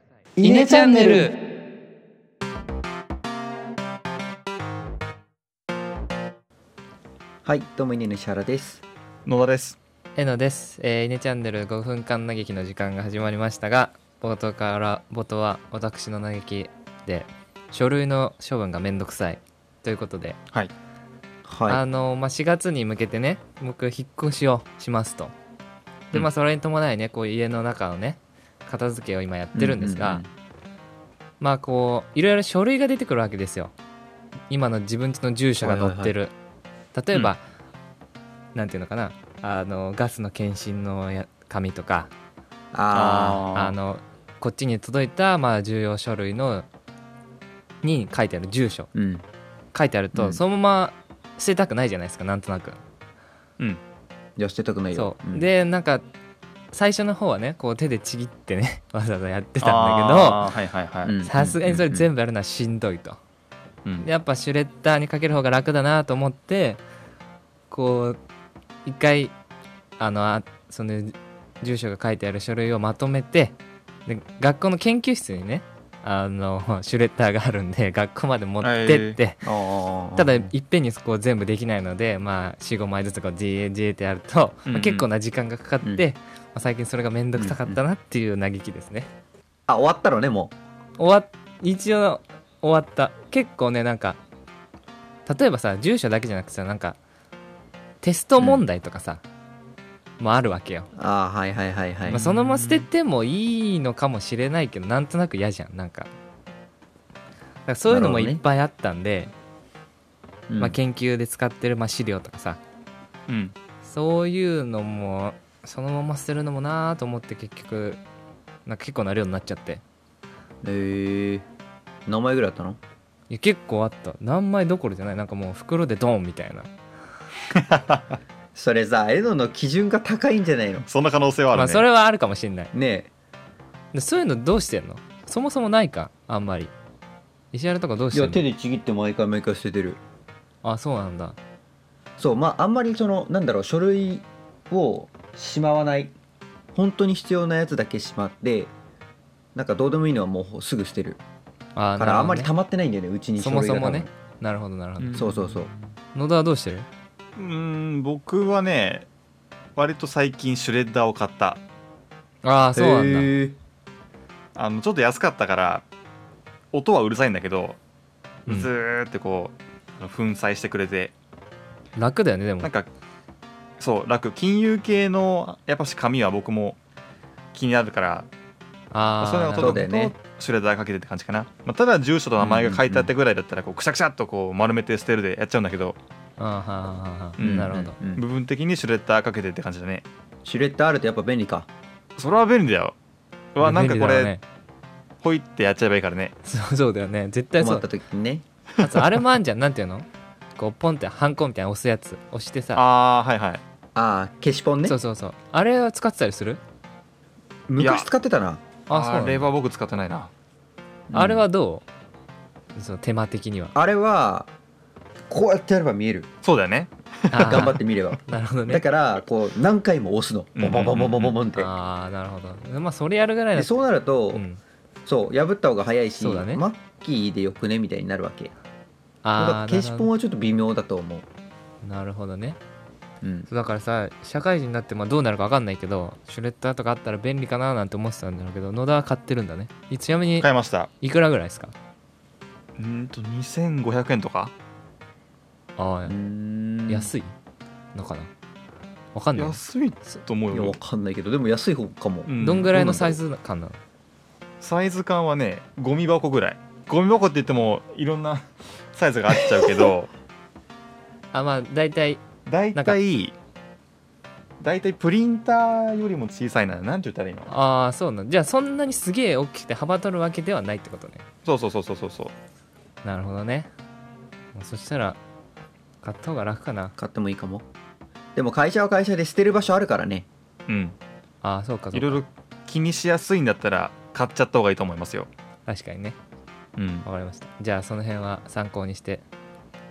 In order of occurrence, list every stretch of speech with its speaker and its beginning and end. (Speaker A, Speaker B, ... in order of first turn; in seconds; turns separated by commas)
Speaker A: 0.4-1.3, Speaker B: 0.4-1.3, Speaker A: 7.5-8.8, Speaker C: 9.3-9.8, Speaker B: 10.2-20.4, Speaker A: 21.5-21.8, Speaker B: 21.7-25.3, Speaker B: 26.1-30.2, Speaker A: 29.6-30.3, Speaker B: 31.4-33.7, Speaker B: 34.5-36.3, Speaker A: 35.6-36.1, Speaker B: 36.9-37.4, Speaker B: 38.5-42.1, Speaker A: 42.7-43.5, Speaker C: 42.9-43.8, Speaker B: 43.5-46.7, Speaker B: 47.8-48.9, Speaker A: 48.9-49.2, Speaker B: 49.7-52.8, Speaker A: 50.1-50.4, Speaker A: 54.4-55.5, Speaker B: 54.9-56.0, Speaker B: 56.7-60.5, Speaker C: 59.6-61.1, Speaker A: 61.0-62.1, Speaker B: 61.2-63.2, Speaker B: 64.0-66.8, Speaker B: 67.7-68.2, Speaker B: 68.8-69.3, Speaker B: 70.0-73.6, Speaker B: 74.1-79.4, Speaker C: 78.6-79.2, Speaker A: 79.4-80.5, Speaker B: 80.2-89.1, Speaker C: 84.7-85.0, Speaker A: 87.4-87.8, Speaker A: 89.7-90.5, Speaker B: 91.0-94.2, Speaker B: 95.3-97.0, Speaker B: 98.0-99.2, Speaker B: 100.2-100.9, Speaker A: 101.0-102.2, Speaker C: 102.1-102.9, Speaker B: 102.1-106.1, Speaker B: 107.7-109.3, Speaker A: 107.9-108.4, Speaker A: 110.5-110.8, Speaker B: 110.6-112.6, Speaker C: 113.3-113.5, Speaker B: 113.8-118.0, Speaker B: 118.7-119.8, Speaker A: 120.6-121.5, Speaker A: 122.1-122.8, Speaker B: 123.3-126.7, Speaker C: 127.5-128.2, Speaker A: 128.6-130.8, Speaker C: 130.8-131.8, Speaker B: 131.5-132.7, Speaker A: 132.7-133.1, Speaker B: 133.9-136.7, Speaker B: 137.5-138.4, Speaker A: 138.1-140.0, Speaker B: 140.6-141.4, Speaker A: 142.2-146.2, Speaker A: 146.8-148.7, Speaker A: 149.6-151.2, Speaker B: 151.8-152.5, Speaker A: 152.0-154.1, Speaker B: 153.4-155.3, Speaker C: 155.0-156.0, Speaker A: 155.2-155.7, Speaker B: 156.2-156.9, Speaker C: 157.4-159.1, Speaker C: 159.8-161.6, Speaker B: 162.4-163.3, Speaker A: 162.8-163.6, Speaker C: 164.6-165.9, Speaker C: 166.7-167.8, Speaker C: 168.5-171.1, Speaker B: 172.0-172.7, Speaker C: 172.6-172.9, Speaker C: 173.8-176.8, Speaker C: 177.5-178.3, Speaker B: 178.9-179.9, Speaker C: 179.2-186.0, Speaker A: 179.6-180.1, Speaker A: 182.4-183.1, Speaker B: 186.4-188.0, Speaker C: 187.4-190.1, Speaker A: 187.4-188.2, Speaker A: 190.4-191.7, Speaker C: 192.2-193.0, Speaker C: 193.6-194.3, Speaker B: 193.6-194.4, Speaker C: 195.2-196.3, Speaker B: 196.4-197.8, Speaker A: 197.6-198.4, Speaker B: 198.8-202.8, Speaker C: 202.8-203.6, Speaker A: 203.9-204.9, Speaker B: 204.8-206.6, Speaker A: 207.7-208.6, Speaker C: 207.8-208.1, Speaker B: 208.9-209.5, Speaker C: 208.9-210.3, Speaker A: 211.1-211.5, Speaker B: 211.1-211.9, Speaker B: 212.8-213.7, Speaker A: 213.8-214.5, Speaker A: 215.3-216.3, Speaker C: 216.4-217.7, Speaker B: 217.3-218.8, Speaker A: 217.4-221.7, Speaker C: 220.6-221.4, Speaker B: 221.6-223.8, Speaker A: 223.6-224.4, Speaker B: 224.3-224.6, Speaker A: 225.1-228.5, Speaker B: 226.2-226.6, Speaker B: 229.2-230.1, Speaker A: 229.4-231.3, Speaker B: 231.8-232.6, Speaker A: 233.2-233.5, Speaker B: 233.5-240.5, Speaker C: 240.4-240.9, Speaker B: 241.0-241.7, Speaker C: 242.8-244.5, Speaker B: 245.8-246.2, Speaker A: 246.1-247.1, Speaker B: 246.9-247.3, Speaker B: 247.9-248.3, Speaker B: 249.2-249.6, Speaker C: 249.4-250.8, Speaker A: 250.5-253.2, Speaker C: 252.3-252.7, Speaker B: 252.4-253.8, Speaker C: 254.6-260.1, Speaker B: 261.3-262.2, Speaker C: 262.5-263.4, Speaker C: 264.6-267.6, Speaker B: 267.5-271.2, Speaker C: 271.4-272.3, Speaker B: 273.0-273.7, Speaker B: 274.5-275.2, Speaker B: 276.0-276.9, Speaker A: 277.0-277.7, Speaker A: 278.4-280.3, Speaker C: 280.7-281.0, Speaker B: 281.4-282.2, Speaker C: 281.9-285.3, Speaker B: 285.7-286.2, Speaker C: 286.8-287.1, Speaker B: 287.1-289.2